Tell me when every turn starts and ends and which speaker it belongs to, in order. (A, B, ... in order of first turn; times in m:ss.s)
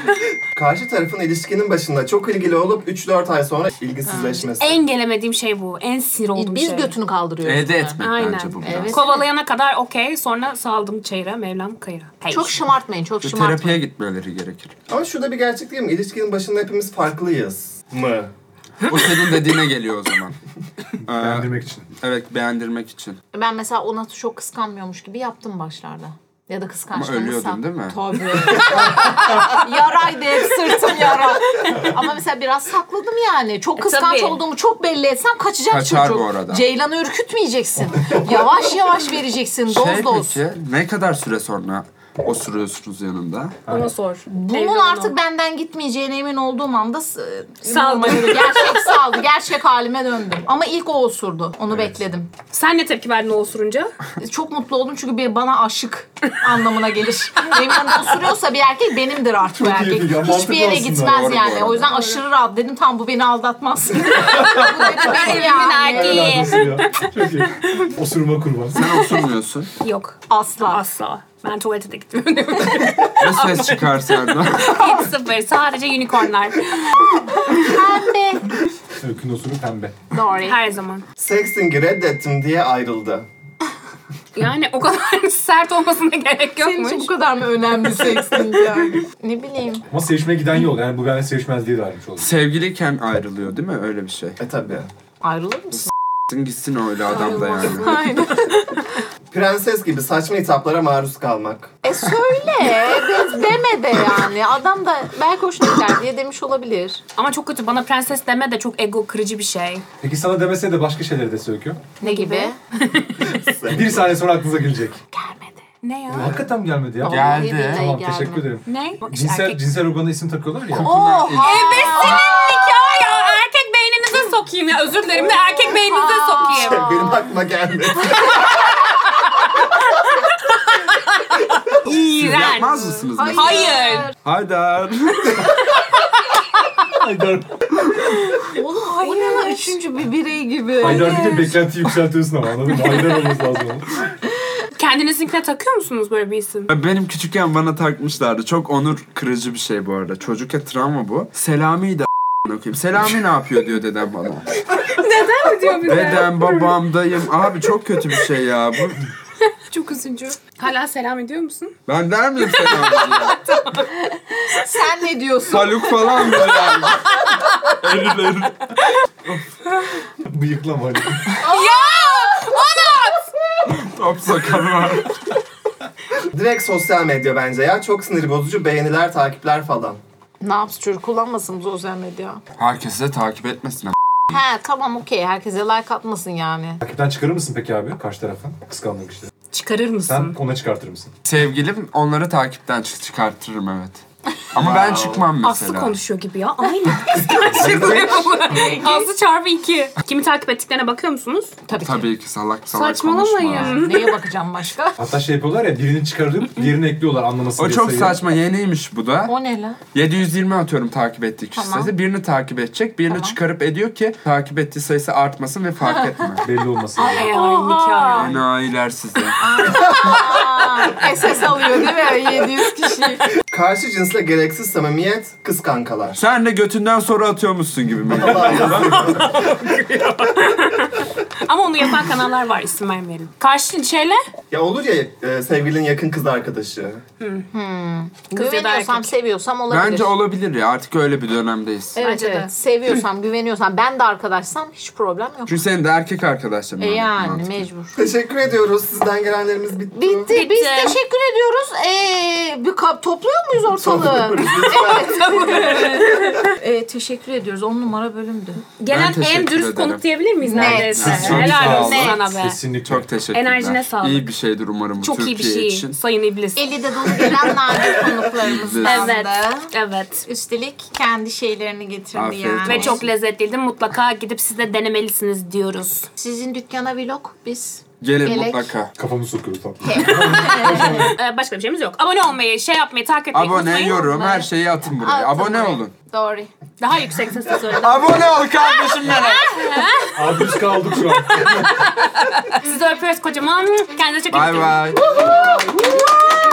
0:00.6-0:04.8 A
0:04.0-0:04.4 B
0:04.6-0:06.9 C
0:06.4-0:08.1 B
0:07.4-0:09.0 D
0:08.0-0:12.6 C
0:08.6-0:09.2 B
0:12.3-0:13.8 B
0:13.2-0:14.7 D
0:14.9-0:18.3 A
0:18.8-0:20.4 D
0:21.0-0:23.2 D
0:21.2-0:21.9 E
0:23.3-0:40.4 B
0:26.9-0:28.0 D
0:33.8-0:34.4 C
0:35.7-0:36.6 D
0:39.7-0:43.6 D
0:43.7-0:45.1 C
0:44.3-0:52.3 B
0:47.6-0:49.0 C
0:52.5-0:53.9 C
0:54.2-1:06.6 B
0:59.5-1:01.4 E
1:01.0-1:01.9 D
1:04.2-1:07.1 C
1:05.9-1:09.0 E
1:08.7-1:09.7 D
1:09.8-1:17.8 C
1:10.3-1:10.8 B
1:13.2-1:14.8 D
1:17.1-1:18.5 B
1:19.0-1:19.9 E
1:20.1-1:20.6 B
1:20.4-1:21.0 C
1:21.2-1:23.3 A
1:24.3-1:27.1 C
1:26.6-1:29.8 B
1:27.9-1:28.9 C
1:29.9-1:32.3 E
1:32.2-1:34.4 D
1:34.4-1:34.9 A
1:35.2-1:35.9 B
1:36.3-1:38.1 D
1:37.1-1:38.0 C
1:37.2-1:39.0 B
1:39.3-1:41.8 A
1:41.8-1:47.0 B
1:47.2-1:49.8 C
1:50.0-1:51.8 E
1:52.0-1:52.6 B
1:52.0-1:53.4 C
1:53.3-1:54.1 A
1:53.7-1:55.0 E
1:55.2-1:55.5 B
1:55.6-1:56.3 C
1:56.1-2:01.0 E
1:56.1-1:56.4 A
1:57.0-1:58.4 B
1:57.0-1:57.9 D
1:58.7-1:59.6 C
2:00.7-2:02.2 D
2:00.8-2:03.3 B
2:01.3-2:06.9 C
2:05.2-2:07.2 B
2:06.5-2:08.6 A
2:10.5-2:14.1 C
2:12.1-2:15.6 D
2:13.0-2:14.1 B
2:16.9-2:17.8 E
2:18.4-2:21.6 B
2:19.0-2:19.8 C
2:20.8-2:24.0 E
2:24.7-2:26.7 C
2:26.7-2:34.6 D
2:34.8-2:36.8 C
2:35.8-2:39.1 D
2:39.4-2:41.7 C
2:41.9-2:43.4 D
2:42.4-2:43.9 C
2:43.9-2:46.7 B
2:45.4-2:49.4 D
2:50.2-2:51.4 E
2:51.4-2:53.2 B
2:51.4-2:53.2 C
2:53.7-2:55.2 D
2:56.2-3:00.0 A
3:00.4-3:02.4 B
3:02.6-3:03.9 D
3:04.3-3:06.8 B
3:06.8-3:09.3 E
3:09.5-3:10.4 C
3:10.0-3:11.1 E
3:11.2-3:14.0 D
3:14.5-3:16.0 D
3:14.6-3:15.3 A
3:15.4-3:21.6 C
3:17.1-3:19.1 B
3:17.4-3:18.2 A
3:21.7-3:22.1 B
3:21.8-3:23.8 D
3:22.7-3:24.2 C
3:23.5-3:25.0 B
3:25.0-3:28.2 E
3:27.6-3:29.3 D
3:29.3-3:29.8 B
3:29.9-3:36.4 D
3:31.5-3:31.9 B
3:33.1-3:33.4 B
3:36.4-3:37.3 E
3:37.0-3:38.3 B
3:37.1-3:38.4 C
3:38.2-3:39.8 D
3:39.4-3:43.3 B
3:39.7-3:40.6 A
3:43.5-3:46.2 A
3:46.2-3:49.1 D
3:48.2-3:49.4 A
3:48.8-3:54.2 C
3:54.5-3:57.0 A
3:57.2-3:57.4 C
3:57.5-4:00.2 B
3:58.3-3:59.1 C
3:59.7-4:02.0 D
4:01.9-4:05.6 B
4:02.0-4:02.5 C
4:05.4-4:07.6 D
4:06.8-4:08.0 B
4:08.0-4:10.3 A
4:09.9-4:18.6 B
4:10.3-4:11.0 C
4:13.7-4:15.6 A
4:15.4-4:16.4 C
4:18.8-4:22.6 C
4:18.9-4:20.0 D
4:20.4-4:22.2 B
4:20.5-4:22.2 D
4:20.6-4:23.1 E
4:22.8-4:25.9 D
4:23.3-4:24.3 C
4:25.0-4:27.4 C
4:26.6-4:29.7 B
4:28.3-4:29.1 D
4:28.8-4:30.3 C
4:30.2-4:33.0 B
4:32.1-4:33.1 D
4:32.6-4:36.1 C
4:36.2-4:38.7 B
4:38.0-4:38.9 D
4:39.0-4:41.1 E
4:39.8-4:41.1 B
4:40.2-4:44.4 C
4:43.3-4:45.9 D
4:44.3-4:46.5 B
4:46.8-4:48.3 C
4:47.8-4:49.6 D
4:48.9-4:50.5 C
4:50.1-4:51.8 E
4:51.1-4:56.0 C
4:54.3-4:55.2 D
4:55.1-4:56.1 B